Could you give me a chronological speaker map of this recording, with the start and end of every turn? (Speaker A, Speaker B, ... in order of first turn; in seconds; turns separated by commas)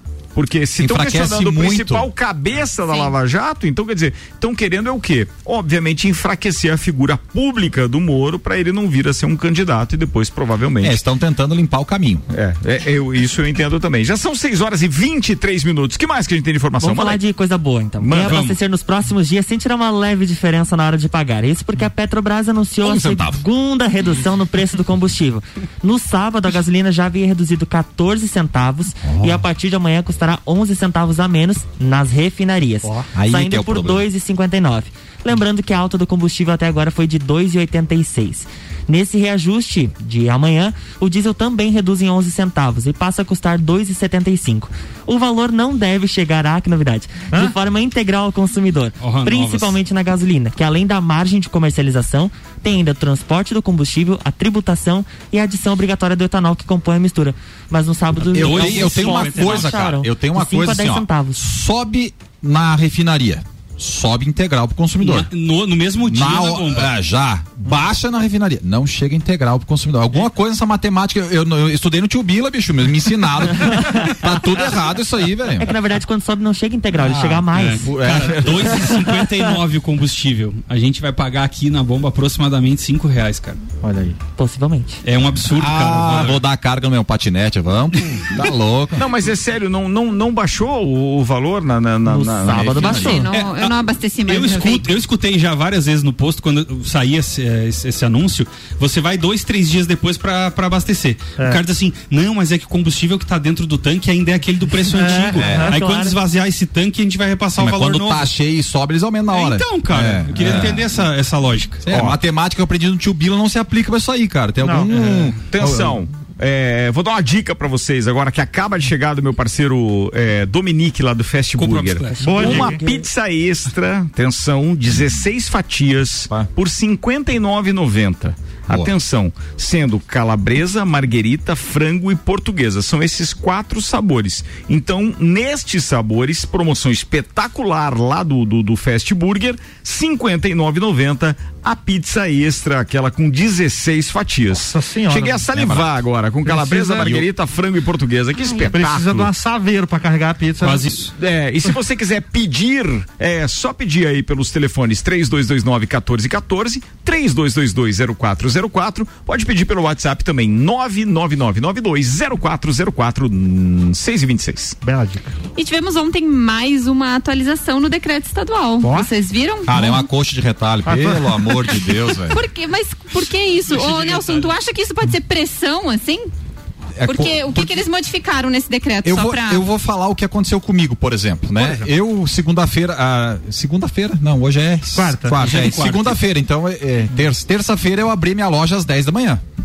Speaker A: 0.3-11.0, Speaker B: 0.8-2.1, Speaker C: 2.8-3.1, Speaker B: 10.8-12.2, Speaker A: 12.3-17.2, Speaker D: 16.8-61.4, Speaker A: 18.0-18.6, Speaker A: 22.8-23.4, Speaker B: 29.0-29.4, Speaker B: 33.1-34.1, Speaker E: 49.0-49.8, Speaker E: 58.3-59.8, Speaker B: 58.3-65.3, Speaker E: 65.0-66.9, Speaker B: 66.1-75.7, Speaker D: 73.8-74.1, Speaker D: 75.6-77.9, Speaker B: 77.0-79.0, Speaker E: 77.5-83.6, Speaker B: 83.8-84.2, Speaker D: 84.4-85.0, Speaker E: 85.0-86.4, Speaker B: 85.5-89.0, Speaker A: 89.0-93.2, Speaker D: 92.1-93.3, Speaker B: 92.5-93.2, Speaker C: 93.0-95.0, Speaker E: 93.3-108.3, Speaker F: 104.8-105.7, Speaker B: 105.3-105.7, Speaker D: 105.6-106.2, Speaker B: 107.6-110.9, Speaker E: 109.3-112.0, Speaker B: 111.8-116.0, Speaker A: 111.9-112.2, Speaker F: 114.6-114.9, Speaker E: 114.9-115.4, Speaker A: 115.5-149.3, Speaker E: 121.6-122.7, Speaker F: 122.2-122.7, Speaker D: 122.4-123.1, Speaker F: 144.5-145.4, Speaker B: 145.5-146.0, Speaker F: 146.4-147.3, Speaker F: 148.7-151.0, Speaker E: 150.6-151.1, Speaker A: 151.1-164.8, Speaker F: 164.8-165.3, Speaker C: 165.6-170.1, Speaker F: 168.8-169.1, Speaker B: 169.7-172.4, Speaker F: 170.9-172.0, Speaker C: 172.3-176.3, Speaker E: 173.7-174.5, Speaker B: 176.9-177.8, Speaker C: 177.0-179.7, Speaker B: 179.0-189.4, Speaker F: 181.6-181.9, Speaker F: 184.9-185.6, Speaker E: 185.3-186.2